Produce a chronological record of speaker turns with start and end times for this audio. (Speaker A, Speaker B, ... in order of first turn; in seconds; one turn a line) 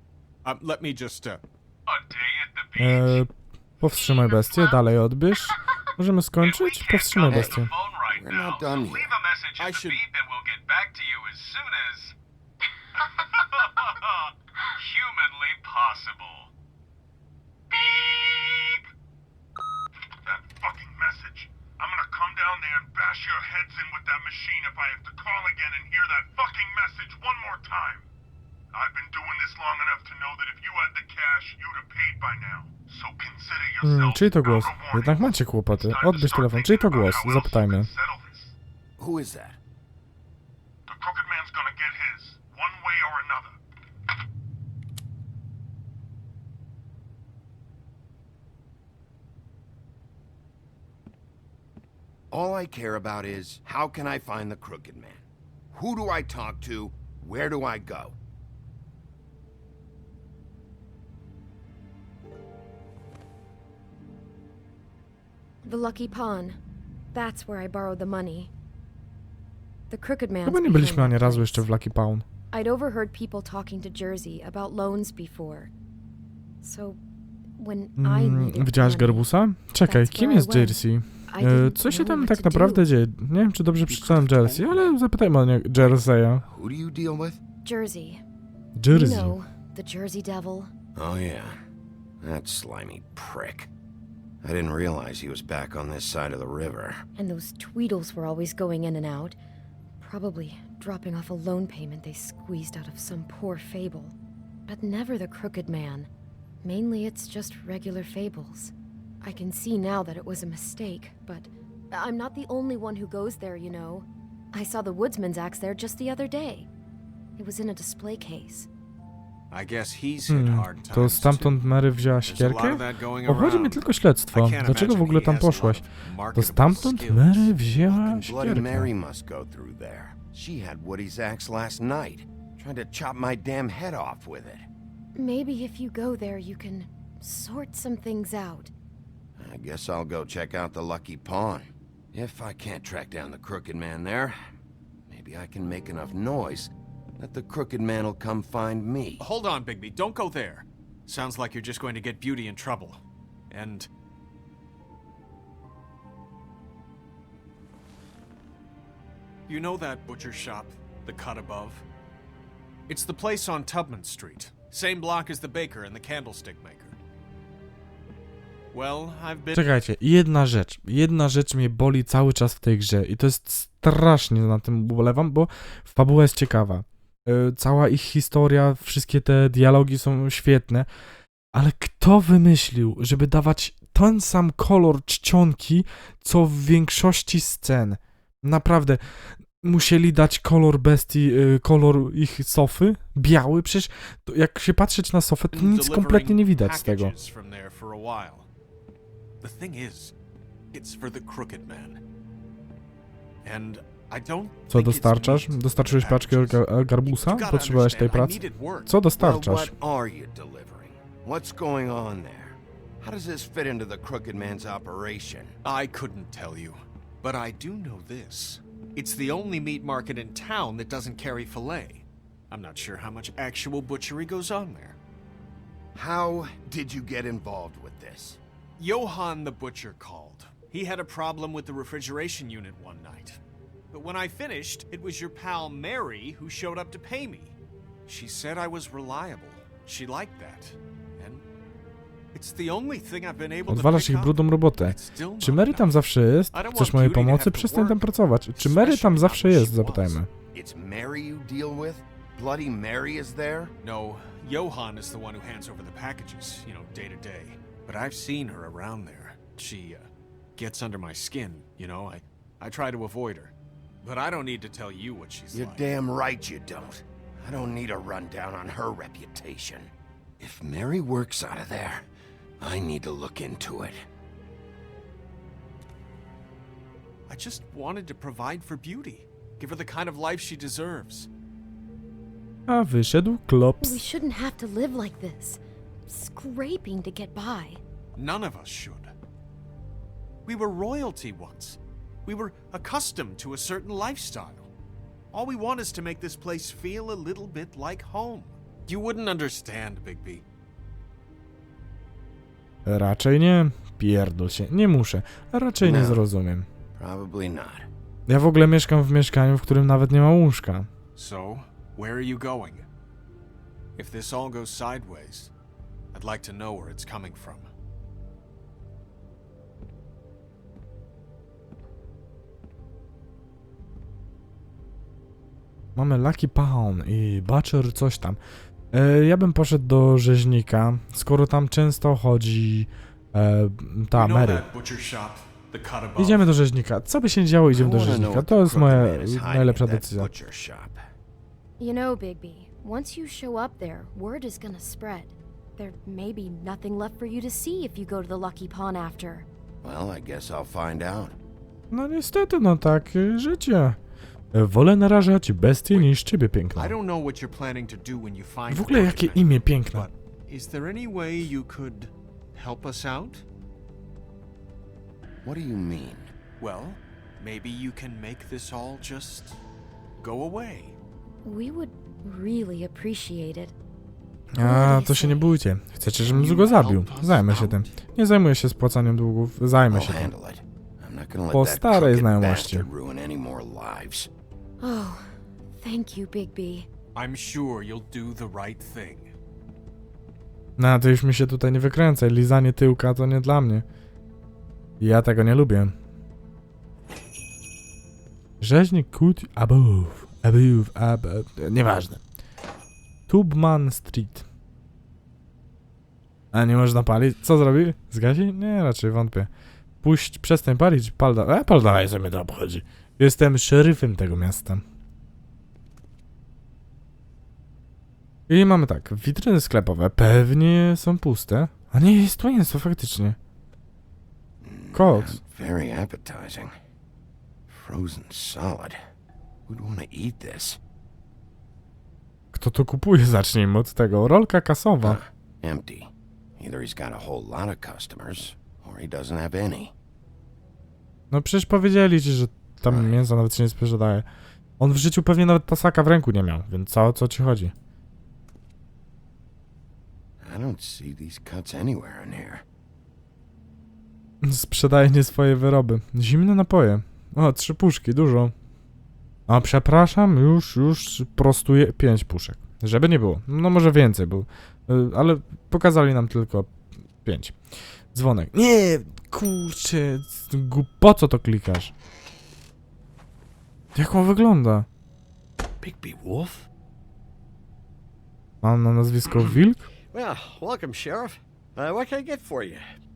Speaker A: 0.4-3.2
Speaker B: 2.8-3.3
Speaker B: 3.8-7.7
Speaker C: 4.0-4.8
Speaker A: 6.4-12.1
Speaker D: 7.3-9.1
Speaker A: 13.1-16.5
Speaker C: 17.9-18.8
Speaker E: 20.0-28.1
Speaker E: 28.7-38.5
Speaker B: 33.8-37.9
Speaker D: 39.0-39.6
Speaker E: 40.9-43.5
Speaker D: 52.3-58.1
Speaker C: 65.6-66.6
Speaker C: 67.1-68.5
Speaker C: 69.9-71.7
Speaker B: 70.4-72.2
Speaker C: 72.5-75.7
Speaker C: 76.6-77.0
Speaker C: 77.6-79.3
Speaker B: 78.0-86.4
Speaker C: 79.8-82.8
Speaker A: 83.8-84.9
Speaker D: 86.4-87.4
Speaker C: 87.6-88.2
Speaker B: 88.8-89.3
Speaker C: 88.9-90.7
Speaker D: 91.0-91.6
Speaker D: 92.2-93.7
Speaker D: 94.4-97.0
Speaker C: 97.2-99.4
Speaker C: 100.0-104.1
Speaker C: 104.7-106.1
Speaker C: 106.6-116.7
Speaker C: 117.4-118.7
Speaker A: 119.5-121.6
Speaker B: 120.3-128.9
Speaker A: 122.2-127.5
Speaker D: 127.9-134.7
Speaker C: 135.1-138.7
Speaker D: 139.4-144.3
Speaker D: 145.1-149.2
Speaker A: 149.2-153.9
Speaker A: 159.5-161.8
Speaker A: 162.9-167.0
Speaker A: 168.7-169.7
Speaker B: 169.5-180.9
Speaker B: 181.5-197.1
Speaker A: 195.5-198.5
Speaker A: 199.4-200.1
Speaker A: 200.7-202.0
Speaker A: 203.4-209.0
Speaker B: 204.7-209.7
Speaker D: 209.2-215.5
Speaker A: 215.6-225.0
Speaker D: 225.9-228.4
Speaker A: 228.8-233.4
Speaker A: 233.9-237.5
Speaker A: 238.1-241.4
Speaker A: 242.3-246.0
Speaker B: 243.7-250.3
Speaker A: 246.5-250.2
Speaker D: 250.5-253.7
Speaker A: 253.8-265.9
Speaker D: 265.5-272.0
Speaker D: 272.6-274.0
Speaker A: 277.3-281.3
Speaker B: 282.7-284.0
Speaker C: 283.8-287.8
Speaker A: 288.1-289.1
Speaker A: 290.4-294.7
Speaker A: 295.3-300.4
Speaker B: 302.8-306.7
Speaker D: 305.8-306.2
Speaker D: 307.0-307.9
Speaker B: 308.3-310.9
Speaker A: 311.1-312.9
Speaker A: 314.0-315.5
Speaker A: 316.1-317.7
Speaker B: 325.9-328.4
Speaker B: 328.9-334.6
Speaker A: 334.1-336.5
Speaker B: 336.2-340.3
Speaker D: 337.7-341.0
Speaker C: 341.8-349.5
Speaker D: 349.8-351.4
Speaker B: 351.9-354.0
Speaker B: 354.5-356.9
Speaker A: 356.7-363.4
Speaker B: 358.7-360.1
Speaker D: 365.4-366.3
Speaker A: 366.6-369.6
Speaker A: 370.2-370.9
Speaker C: 371.4-373.7
Speaker B: 374.6-380.3
Speaker C: 374.6-375.5
Speaker A: 376.2-378.0
Speaker D: 379.9-384.3
Speaker B: 381.5-382.9
Speaker C: 384.8-386.9
Speaker A: 387.1-389.3
Speaker B: 390.8-393.8
Speaker B: 395.0-395.9
Speaker B: 398.6-402.2
Speaker B: 403.3-404.4
Speaker B: 406.5-409.5
Speaker B: 410.0-414.8
Speaker B: 418.5-423.4
Speaker D: 424.6-426.7
Speaker B: 424.9-425.4
Speaker D: 427.7-429.0
Speaker D: 429.7-430.8
Speaker B: 432.5-435.2
Speaker D: 435.0-439.9
Speaker B: 441.3-444.2
Speaker D: 442.8-443.1
Speaker B: 444.8-447.7
Speaker D: 450.4-452.6
Speaker B: 454.4-458.5
Speaker B: 459.5-466.7
Speaker B: 467.2-467.6
Speaker B: 468.1-471.9
Speaker B: 473.9-474.9
Speaker F: 475.8-476.7
Speaker B: 478.6-479.9
Speaker F: 480.1-482.9